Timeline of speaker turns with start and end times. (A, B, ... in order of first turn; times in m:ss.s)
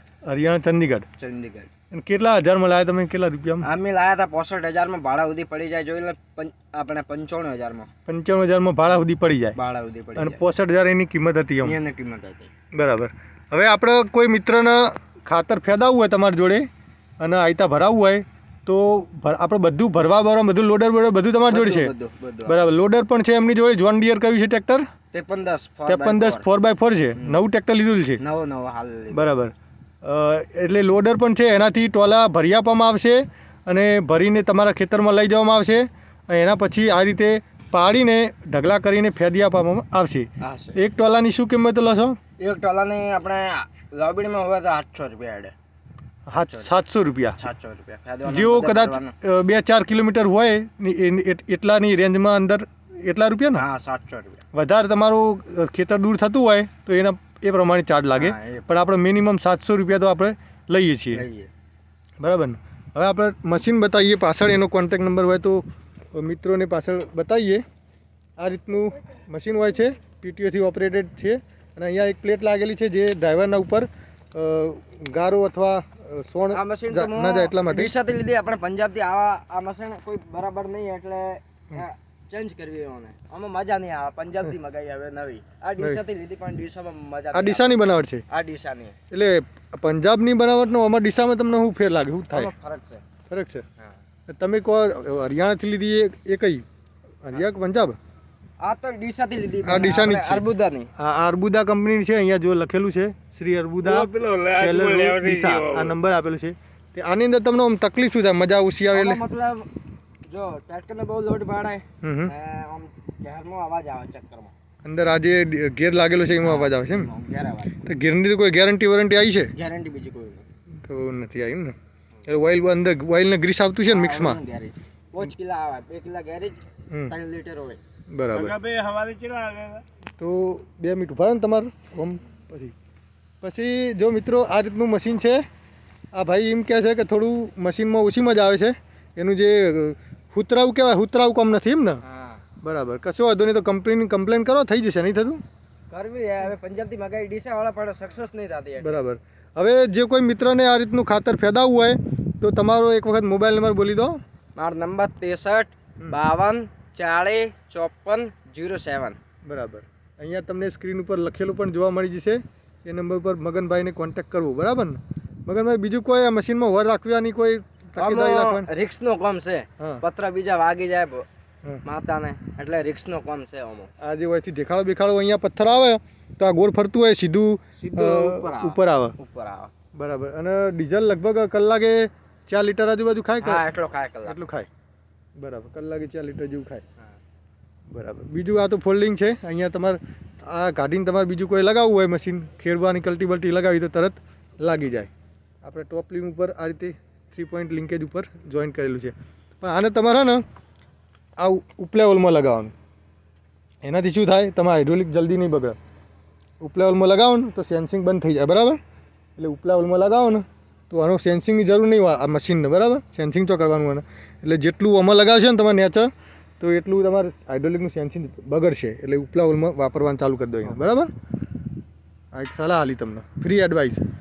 0:00.3-0:01.0 A
0:01.2-0:01.7 B
0:01.9-0:03.6 A
0:03.6-0:07.9 B
0:08.1-0:09.6 A
0:09.6-0:10.4 B
0:10.2-0:11.8 A
0:11.6-0:12.5 B
0:12.7-0:16.6 A
0:17.2-0:21.9 A
0:21.5-0:22.6 B
0:22.4-0:24.8 A
0:25.1-0:26.4 B
0:25.9-0:28.2 A
0:28.2-0:29.3 B
0:29.1-0:42.2 A
0:40.4-0:40.8 B
0:42.4-0:45.5 B
0:46.3-0:47.4 A
0:46.4-0:46.7 B
0:47.3-0:49.1 B
0:48.3-0:53.6 A
0:53.5-0:54.4 B
0:54.5-1:01.2 A
0:58.2-0:58.7 B
1:01.1-1:01.5 B
1:02.2-1:07.6 A
1:08.4-1:17.9 A
1:16.5-1:29.0 B
1:27.3-1:28.2 A
1:29.1-1:32.5 A
1:32.3-1:33.0 B
1:33.3-1:33.6 A
1:34.3-1:36.6 A
1:37.2-1:38.0 A
1:38.6-1:40.9 B
1:39.6-1:40.4 A
1:41.0-1:44.1 A
1:43.8-1:45.9 C
1:44.6-1:49.2 A
1:48.9-1:49.7 B
1:50.3-1:54.5 B
1:52.0-1:52.3 A
1:54.8-1:57.1 A
1:56.4-1:57.8 B
1:57.8-1:59.5 A
1:59.5-2:00.4 B
2:00.8-2:01.7 A
2:02.2-2:04.4 A
2:03.8-2:07.8 B
2:08.1-2:08.6 A
2:08.3-2:09.8 C
2:10.2-2:12.7 A
2:13.4-2:15.4 A
2:16.1-2:22.0 A
2:22.0-2:22.4 B
2:22.6-2:25.4 A
2:25.9-2:28.9 B
2:28.8-2:34.2 A
2:34.6-2:39.2 B
2:39.4-2:48.7 A
2:48.0-2:51.2 B
2:51.8-2:53.9 B
2:54.0-2:59.1 A
2:57.8-2:59.7 B
3:00.0-3:03.6 A
3:03.4-3:04.4 B
3:04.2-3:04.7 A
3:05.4-3:06.8 A
3:07.9-3:15.1 A
3:15.6-3:20.4 A
3:21.4-3:22.7 A
3:23.8-3:25.8 A
3:26.6-3:28.8 A
3:29.4-3:41.1 A
3:42.3-3:44.0 A